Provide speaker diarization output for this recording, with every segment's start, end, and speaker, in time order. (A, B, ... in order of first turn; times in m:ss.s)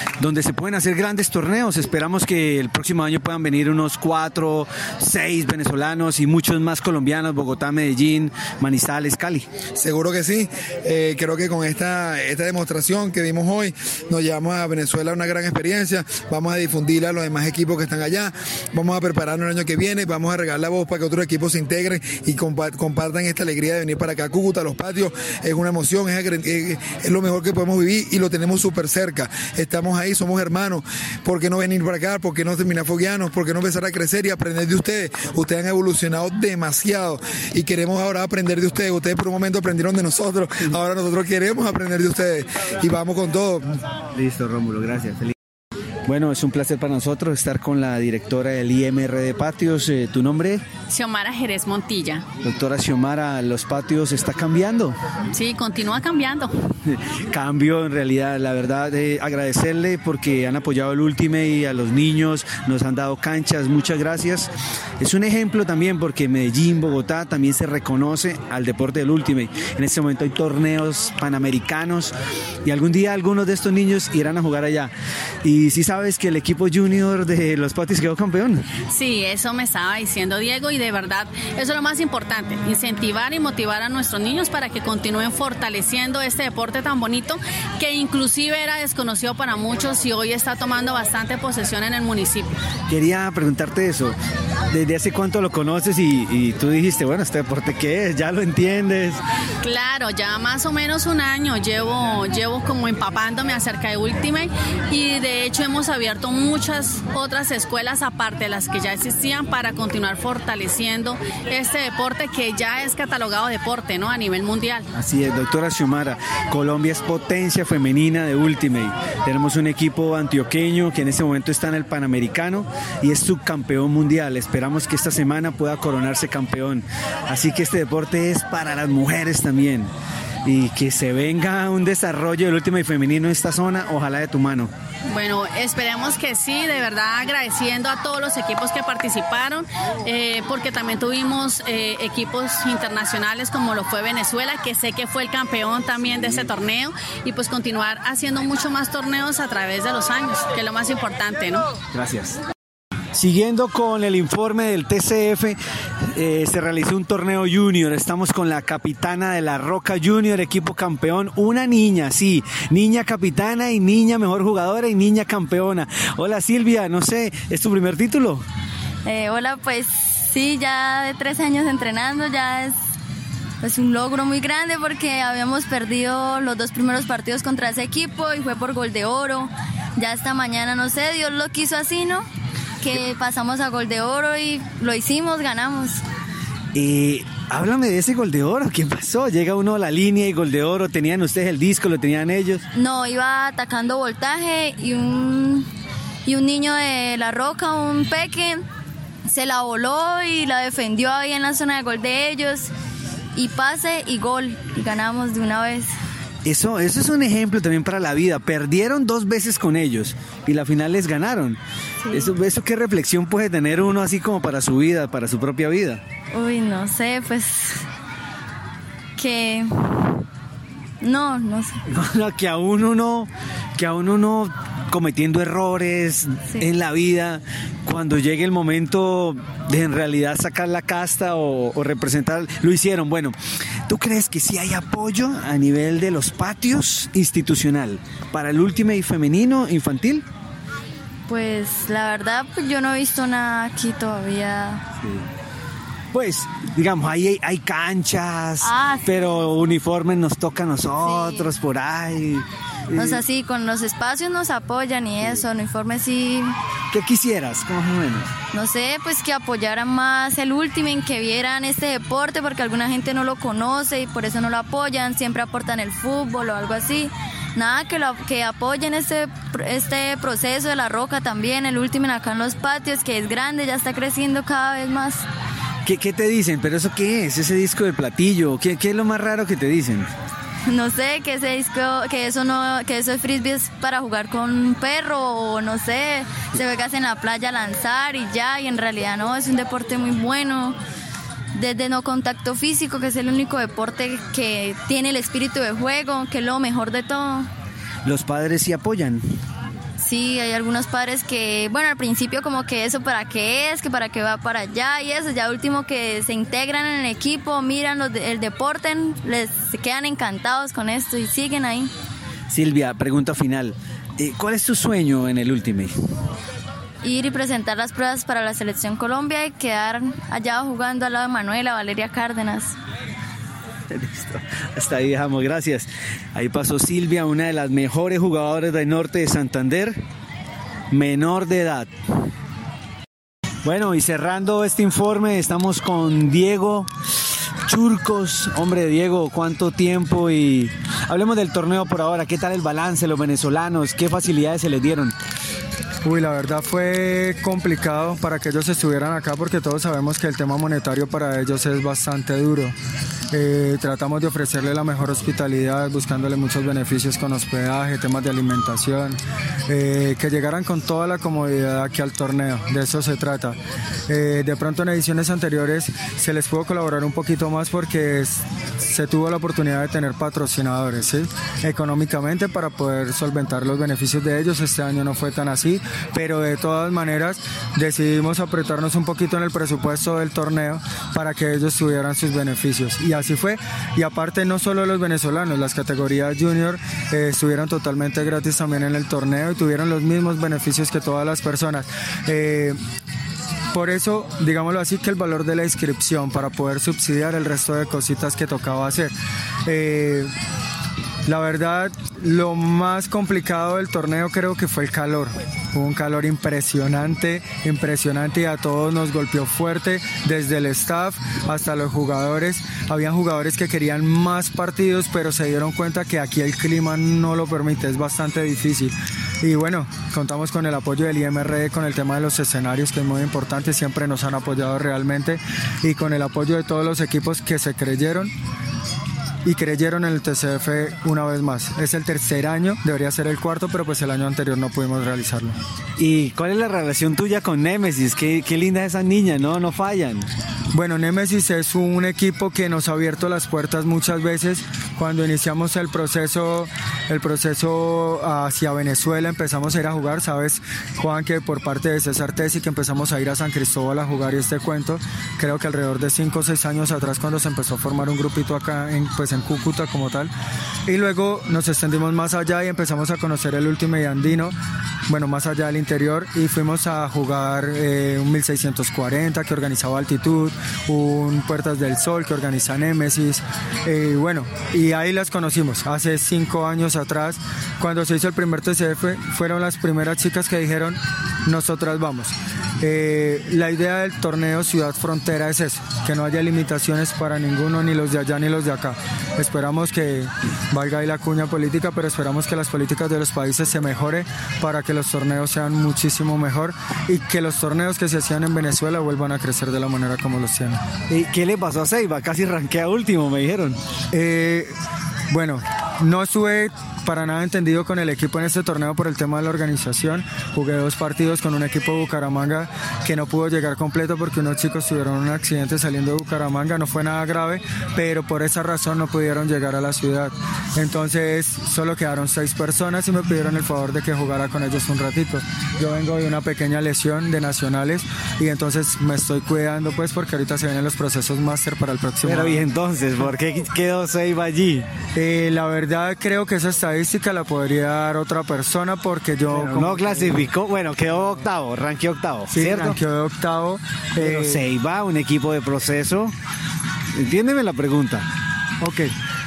0:00.2-0:09.5 A
0:09.7-0:43.8 B
0:44.1-0:45.3 A
0:46.0-0:50.6 A
0:50.9-0:52.2 C
0:52.4-0:55.0 A
0:55.3-0:56.5 C
0:56.8-1:14.9 A
1:15.4-1:18.6 A
1:18.9-1:32.5 C
1:32.9-1:34.2 A
1:34.7-1:39.2 A
1:39.6-1:54.8 C
1:54.9-2:09.9 A
2:10.4-2:14.7 A
2:15.1-2:31.6 C
2:31.9-2:32.4 A
2:33.1-2:48.4 A
2:49.0-2:52.9 D
2:53.6-3:02.3 D
3:02.8-3:06.0 D
3:06.7-3:12.6 A
3:12.7-3:15.7 D
3:16.2-3:18.6 D
3:19.2-3:22.7 D
3:23.3-3:26.0 D
3:26.4-3:31.6 A
3:32.0-3:32.3 D
3:32.1-3:36.0 A
3:36.3-3:37.8 D
3:39.2-3:40.2 D
3:41.0-3:41.8 D
3:41.8-3:53.4 A
3:53.9-4:00.2 A
4:01.3-4:04.8 D
4:06.1-4:13.2 A
4:08.6-4:09.8 D
4:11.0-4:11.5 D
4:12.9-4:16.6 D
4:16.9-4:18.3 A
4:18.5-4:35.2 D
4:35.8-4:40.1 A
4:40.7-4:50.8 D
4:51.5-4:57.5 D
4:58.0-4:59.2 A
5:00.0-5:11.9 D
5:12.5-5:15.9 A
5:17.0-5:22.8 D
5:23.9-5:30.0 A
5:30.9-5:31.9 A
5:33.6-5:36.9 A
5:37.6-5:45.1 A
5:46.0-5:52.7 E
5:53.3-6:32.8 E
6:33.7-6:39.1 E
6:39.6-6:40.3 E
6:41.3-7:08.3 E
7:09.4-7:15.6 E
7:16.0-7:20.3 A
7:20.7-7:40.3 E
7:40.9-7:44.5 E
7:45.1-8:20.8 E
8:21.1-8:23.8 A
8:24.1-8:24.7 E
8:25.3-8:52.7 E
8:52.2-8:54.8 A
8:55.1-9:00.5 E
8:59.5-9:03.0 A
9:02.5-9:04.6 E
9:04.2-9:06.3 A
9:07.1-9:08.3 A
9:08.8-9:09.1 E